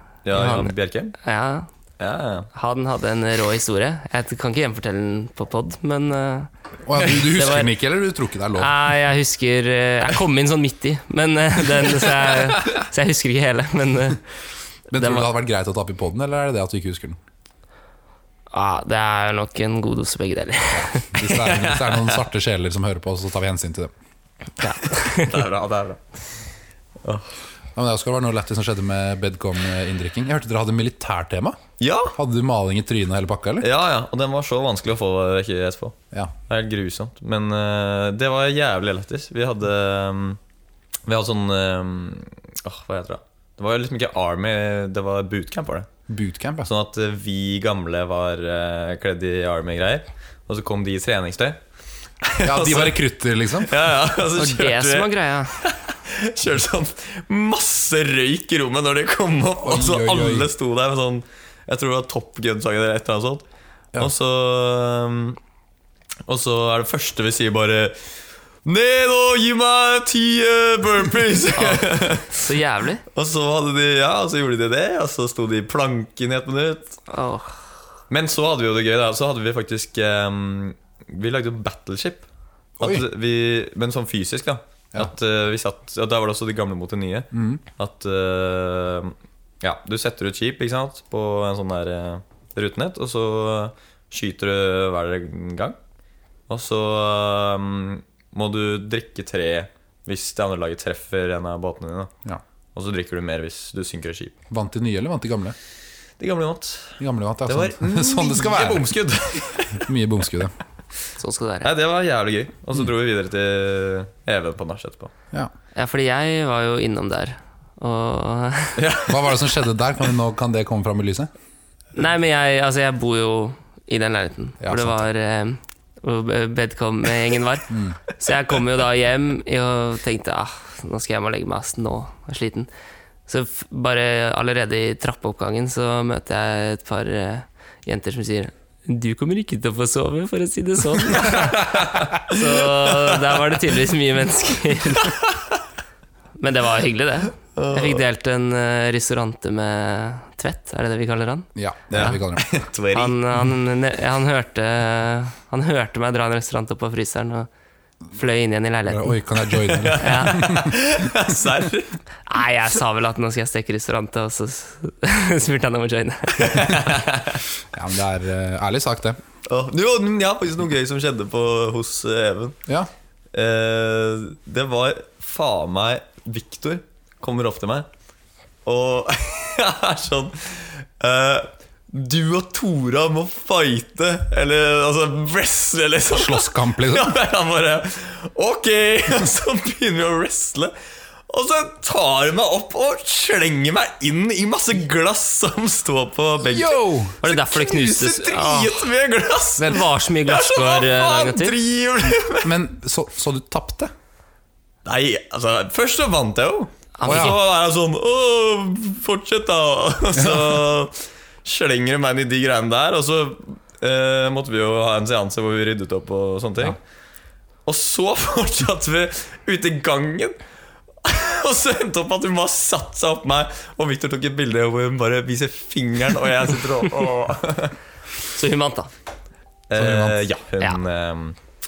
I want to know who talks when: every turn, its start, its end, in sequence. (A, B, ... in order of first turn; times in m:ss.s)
0:00.2-0:01.1 A
0:00.3-0:01.7 B
0:00.4-0:00.7 C
0:02.0-0:02.5 A
0:02.5-0:07.7 B
0:06.8-0:08.8 C
0:08.6-0:14.2 B
0:14.9-0:17.2 C
0:15.0-0:15.3 B
0:18.5-0:21.3 B
0:20.7-0:23.9 C
0:24.6-0:25.4 B
0:25.1-0:26.0 A
0:27.0-0:27.3 A
0:27.8-0:31.6 C
0:31.8-0:32.1 A
0:32.1-0:33.7 C
0:33.6-0:40.4 A
0:41.0-0:45.9 A
0:46.1-0:46.7 C
0:46.6-0:51.6 A
0:52.2-0:53.0 A
0:52.4-0:53.9 C
0:53.6-1:03.4 A
0:54.3-0:55.6 B
0:59.6-1:00.5 C
1:04.0-1:05.4 A
1:06.3-1:08.0 A
1:08.6-1:12.4 A
1:11.5-1:13.0 B
1:13.1-1:17.0 A
1:17.1-1:17.6 B
1:18.1-1:22.2 A
1:22.8-1:23.0 C
1:22.8-1:35.8 A
1:27.3-1:27.6 C
1:36.5-1:42.1 A
1:42.7-1:44.3 A
1:44.5-1:45.6 C
1:46.2-1:49.9 A
1:47.0-1:48.9 C
1:49.8-1:50.5 C
1:51.2-1:51.7 B
1:51.6-1:55.1 A
1:55.8-1:58.8 B
1:58.8-1:59.5 A
1:59.1-2:01.3 C
2:01.9-2:12.7 B
2:04.6-2:05.0 C
2:07.7-2:08.0 C
2:13.3-2:25.2 B
2:21.2-2:22.0 A
2:26.4-2:32.2 B
2:27.6-2:28.0 A
2:31.5-2:32.4 C
2:31.9-2:33.2 A
2:32.9-2:37.5 B
2:38.1-2:39.2 B
2:38.8-2:40.7 C
2:39.6-2:42.0 A
2:40.0-2:40.5 B
2:42.3-2:46.9 B
2:46.4-2:47.4 A
2:47.7-2:49.2 C
2:49.5-2:52.6 A
2:53.3-2:57.9 A
2:58.6-3:10.7 A
3:06.1-3:07.1 C
3:11.3-3:22.6 A
3:16.4-3:17.2 C
3:17.2-3:18.9 B
3:19.6-3:21.6 B
3:22.3-3:23.9 C
3:24.8-3:36.8 A
3:27.0-3:27.4 B
3:27.0-3:27.4 C
3:30.1-3:30.6 C
3:37.6-3:40.4 A
3:41.0-3:47.7 A
3:48.3-3:48.9 B
3:49.7-3:51.4 A
3:49.7-3:50.2 C